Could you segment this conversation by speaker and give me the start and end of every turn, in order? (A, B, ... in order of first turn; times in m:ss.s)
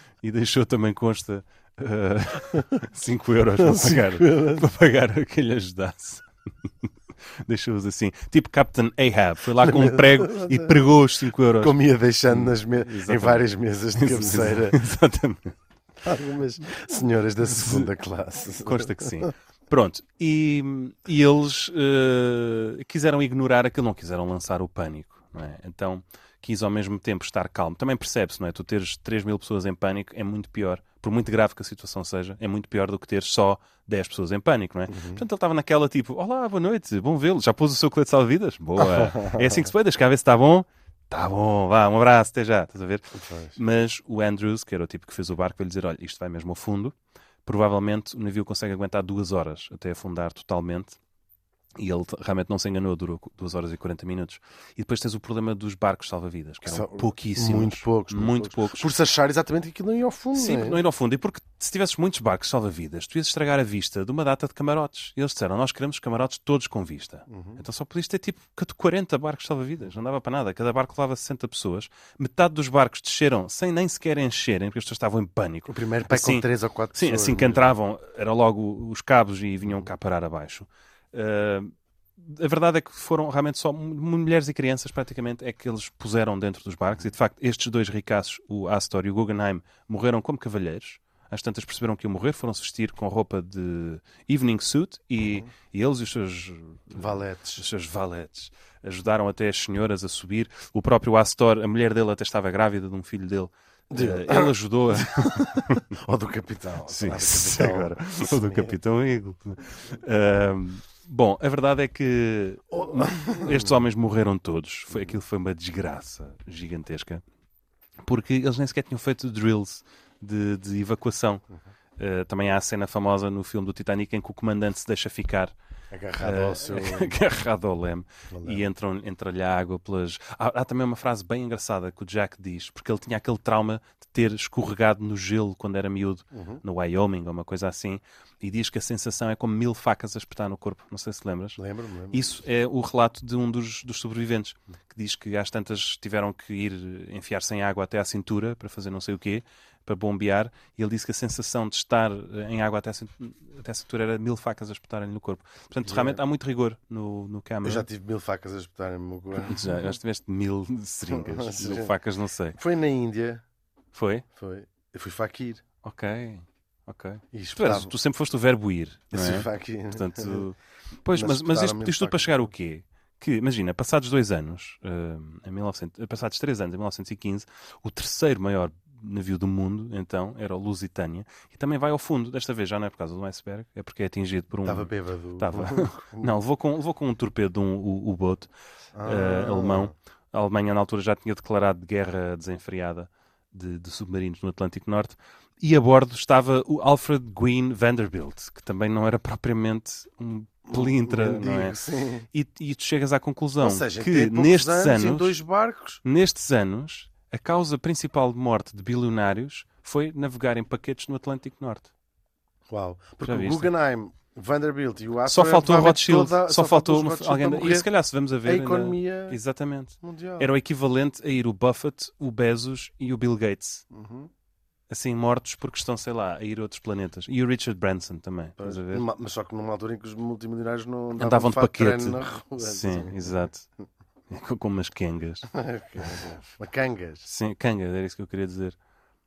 0:00.2-0:06.2 A
0:03.6-0:04.6 B
0:07.5-0:11.8 A
0:09.6-0:10.7 B
0:11.6-0:14.8 B
0:12.3-0:15.6 A
0:16.0-0:19.3 B
0:17.5-0:17.9 A
0:18.6-0:46.9 A
0:34.9-0:35.2 B
0:38.8-0:39.6 B
0:43.2-0:43.6 B
0:47.4-0:51.0 A
0:51.8-0:58.9 A
0:56.7-1:00.8 B
1:00.4-1:45.8 A
1:07.3-1:07.6 B
1:15.7-1:17.7 B
1:37.0-1:37.6 B
1:43.9-1:44.5 B
1:45.0-1:48.7 B
1:46.9-1:57.2 A
1:52.7-1:53.7 B
1:58.0-2:01.4 A
2:02.0-2:05.5 A
2:05.9-2:07.2 B
2:06.2-2:21.6 A
2:08.3-2:08.7 B
2:16.3-2:16.6 B
2:21.6-2:22.3 B
2:22.1-2:37.9 A
2:35.9-2:36.2 B
2:37.6-2:39.9 B
2:39.4-2:42.6 A
2:41.1-2:41.9 B
2:42.6-2:43.4 B
2:43.9-2:44.2 A
2:44.4-2:45.6 B
2:45.8-3:08.5 A
2:47.3-2:47.9 B
2:49.1-2:50.4 B
2:51.1-2:52.3 B
3:04.6-3:06.4 B
3:09.0-3:09.9 B
3:09.0-3:21.8 A
3:20.7-3:22.3 B
3:22.3-3:25.4 A
3:23.6-3:26.0 B
3:26.0-3:31.9 A
3:32.7-3:37.9 B
3:33.2-3:33.7 A
3:35.3-3:43.9 A
3:38.5-3:39.4 B
3:40.0-3:40.5 B
3:43.9-3:44.3 B
3:44.9-3:49.1 A
3:48.6-3:53.3 B
3:51.2-3:53.7 A
3:54.3-3:55.5 A
3:55.5-3:57.3 B
3:57.2-3:58.8 A